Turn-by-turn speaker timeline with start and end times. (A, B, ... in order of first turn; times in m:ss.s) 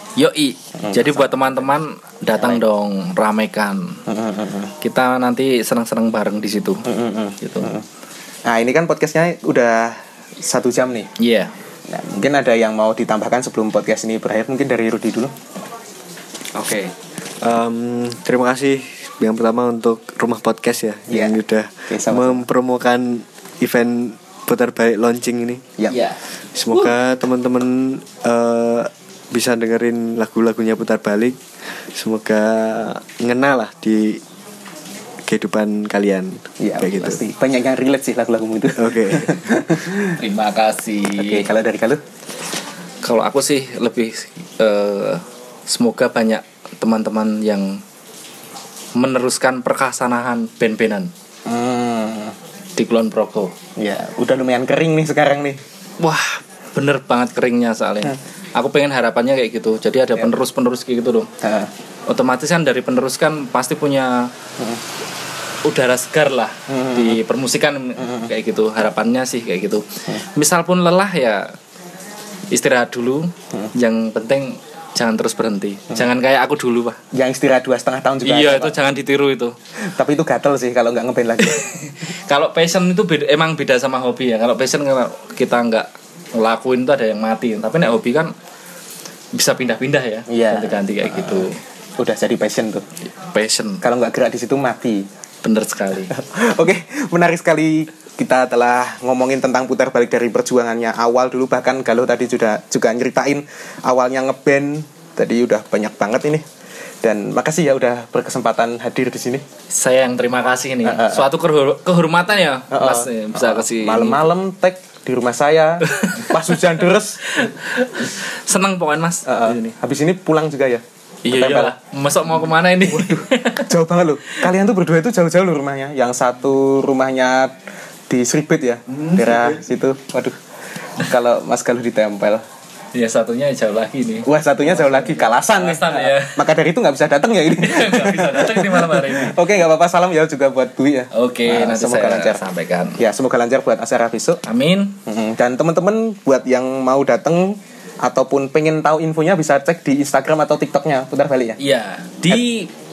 0:00.2-0:04.0 A
0:00.8-0:01.6 B
0:02.4-0:02.6 B
0:04.1-0:04.7 B
0:04.8-0:06.9 A
0:06.9-0:07.8 B
0:07.4-0:07.7 A
0:08.4-0:11.1 B
0:11.2-0:11.5 A
0:11.9-0:15.3 B
0:17.4-0:25.6 C
0:21.1-0:21.4 B
0:21.9-0:22.4 B
0:25.9-0:26.2 A
0:26.5-0:31.4 C
0:31.9-0:34.2 C
0:35.2-0:37.2 C
0:36.6-0:40.2 B
0:38.8-0:39.6 C
0:40.2-0:41.5 A
0:41.1-0:42.0 B
0:43.0-0:47.8 A
0:48.9-0:51.1 A
0:51.4-0:52.4 B
0:52.8-0:53.5 A
0:53.8-0:55.6 B
0:56.0-1:01.3 A
1:01.4-1:01.7 B
1:02.1-1:04.3 A
1:05.6-1:11.5 A
1:06.7-1:07.2 B
1:08.0-1:08.3 B
1:12.5-1:17.0 A
1:17.1-1:18.7 B
1:18.2-1:19.5 A
1:19.9-1:21.6 B
1:21.4-1:28.3 A
1:29.3-1:31.6 A
1:30.3-1:32.8 B
1:33.2-1:33.8 A
1:33.8-1:35.0 B
1:35.4-1:36.1 A
1:36.1-1:46.4 B
1:47.0-1:49.4 B
1:49.7-1:54.3 A
1:50.8-1:51.3 B
1:52.7-1:57.2 B
1:55.8-1:56.5 A
1:57.3-1:59.7 A
1:59.2-2:01.7 B
2:01.2-2:03.7 A
2:02.8-2:07.6 B
2:08.1-2:10.4 B
2:11.0-2:12.4 B
2:12.9-2:16.4 A
2:14.2-2:22.4 B
2:17.5-2:19.4 A
2:21.1-2:23.0 A
2:23.0-2:24.4 B
2:24.4-2:25.0 A
2:25.0-2:31.6 B
2:31.6-2:32.7 A